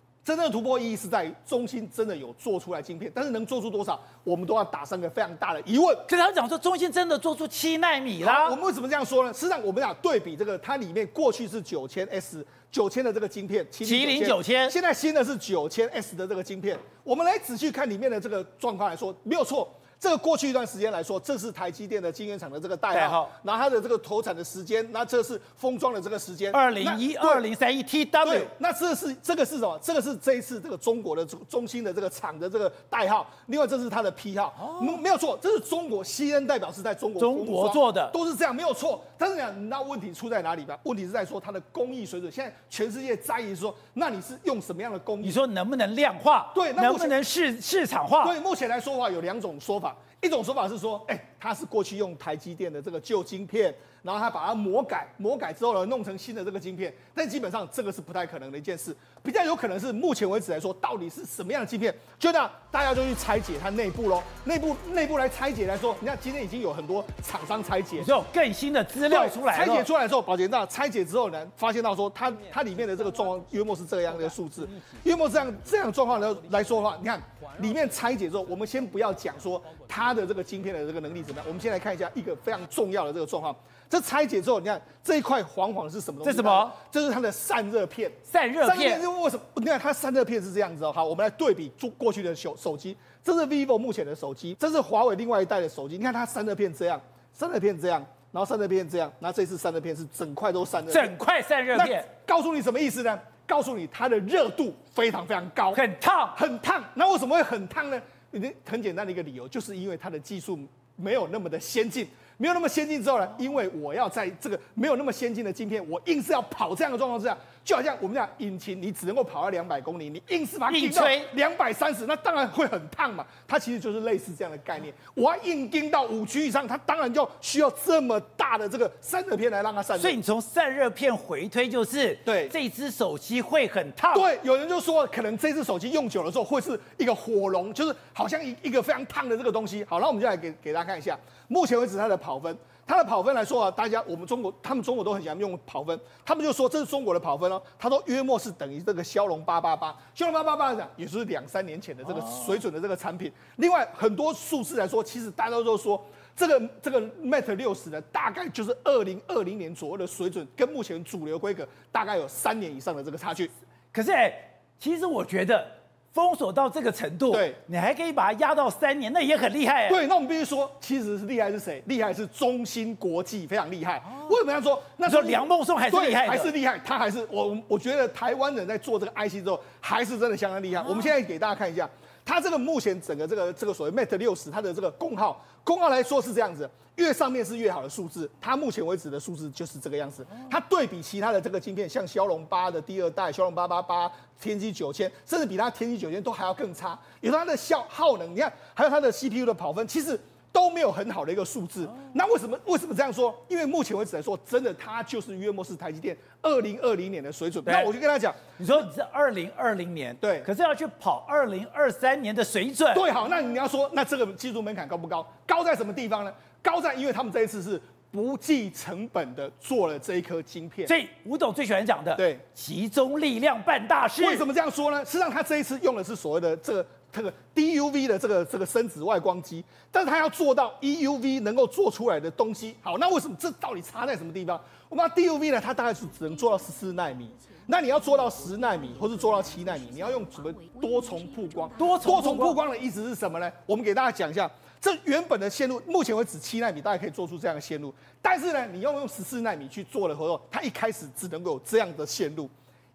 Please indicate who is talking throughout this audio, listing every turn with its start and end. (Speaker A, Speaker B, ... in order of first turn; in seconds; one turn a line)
Speaker A: 0.2-6.1
Speaker B: 6.1-8.6
Speaker A: 8.2-27.4
Speaker B: 13.8-14.8
Speaker B: 22.9-23.3
Speaker B: 26.5-28.5
Speaker A: 28.2-45.4
Speaker B: 34.6-35.0
Speaker B: 37.2-38.1
Speaker B: 45.2-48.4
Speaker A: 46.5-47.2
Speaker A: 48.2-68.1
Speaker B: 68.0-69.9
Speaker A: 69.0-101.2
Speaker B: 86.2-86.8
Speaker B: 88.2-89.0
Speaker B: 100.9-102.1
Speaker A: 101.7-105.8
Speaker B: 105.7-106.4
Speaker A: 106.3-130.2
Speaker B: 120.7-121.3
Speaker B: 130.0-134.3
Speaker A: 132.3-132.5
Speaker A: 134.1-163.5
Speaker B: 163.9-170.0
Speaker A: 167.3-167.6
Speaker A: 169.9-208.5
Speaker B: 175.1-176.5
Speaker B: 208.6-213.1
Speaker A: 210.2-210.5
Speaker A: 212.9-220.9
Speaker B: 220.9-224.4
Speaker A: 222.2-222.4
Speaker A: 224.2-252.5
Speaker B: 241.8-242.6